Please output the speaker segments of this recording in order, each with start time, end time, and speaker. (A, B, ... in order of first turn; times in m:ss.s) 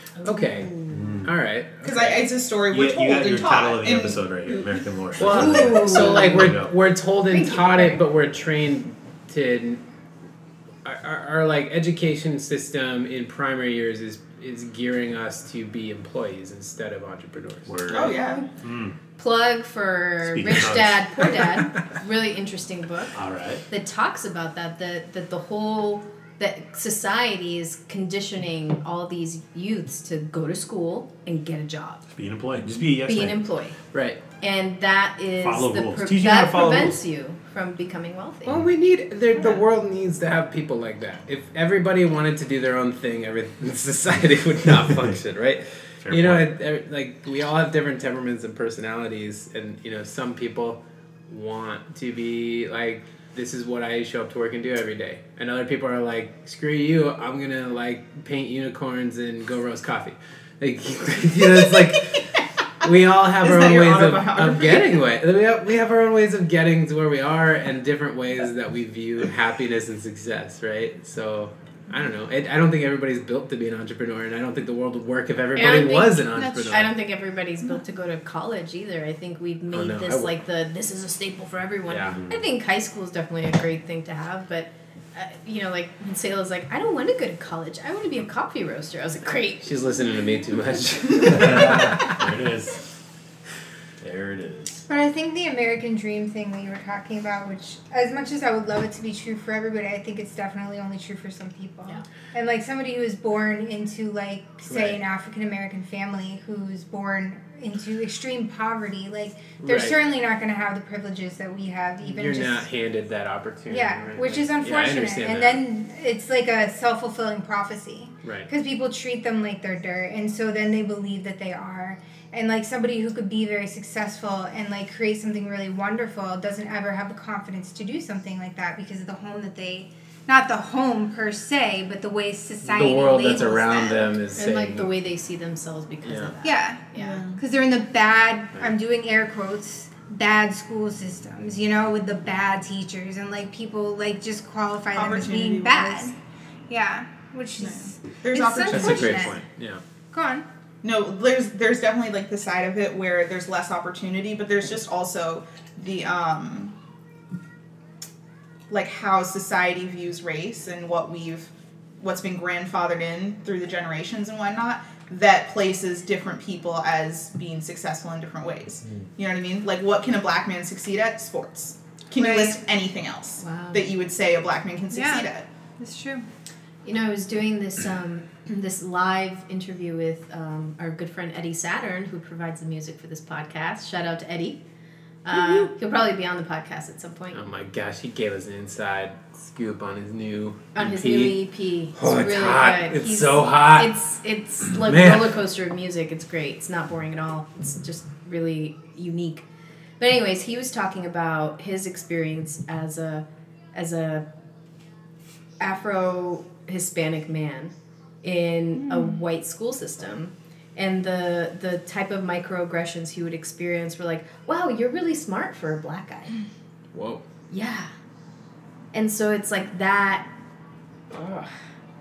0:00.2-0:01.0 A
0:00.2-0:02.0 B
0:00.9-0:01.3 C
0:01.8-0:04.7 D
0:02.7-0:06.7 C
0:05.2-0:09.8 B
0:05.3-0:06.5 A
0:07.3-0:08.0 A
0:10.8-0:17.7 B
0:17.7-0:19.0 C
0:17.9-0:18.5 D
0:17.9-0:18.4 A
0:19.2-0:23.2 A
0:20.2-0:21.6 C
0:23.1-0:23.6 C
0:23.7-0:32.0 A
0:32.1-0:33.4 C
0:32.9-0:33.8 A
0:33.9-0:34.2 B
0:34.4-0:38.7 A
0:35.4-0:37.0 C
0:38.5-1:02.3 B
0:44.8-0:45.1 C
0:46.0-0:46.5 C
1:02.8-1:16.9 B
1:03.4-1:05.0 D
1:15.6-1:29.7 A
1:16.4-1:16.9 E
1:19.7-1:20.4 B
1:21.9-1:22.2 B
1:22.1-1:22.5 C
1:29.6-1:32.2 B
1:31.2-1:32.9 C
1:34.0-1:34.9 C
1:34.9-1:52.7 E
1:44.7-1:45.0 B
1:49.6-1:50.0 B
1:52.0-1:55.6 B
1:53.7-2:14.1 E
1:58.2-1:58.5 B
2:12.6-2:14.9 B
2:14.4-2:17.2 A
2:16.0-2:16.3 B
2:16.4-2:16.8 E
2:17.0-2:17.4 D
2:17.4-2:26.1 E
2:24.9-2:26.1 D
2:26.7-2:29.4 E
2:27.6-2:29.3 D
2:28.7-2:29.8 B
2:30.1-2:30.5 E
2:30.8-2:36.7 D
2:38.7-2:55.5 D
2:52.2-2:52.6 E
2:53.4-2:53.9 A
2:54.9-2:56.3 E
2:56.8-3:04.6 A
3:05.2-3:07.4 A
3:05.3-3:05.6 B
3:07.3-3:11.4 B
3:10.8-3:19.4 A
3:12.0-3:13.9 B
3:14.7-3:15.3 B
3:20.0-3:24.2 A
3:25.6-3:27.7 A
3:28.2-3:36.4 A
3:36.9-3:37.2 B
3:37.5-3:37.9 A
3:38.9-3:40.3 A
3:41.2-3:41.4 B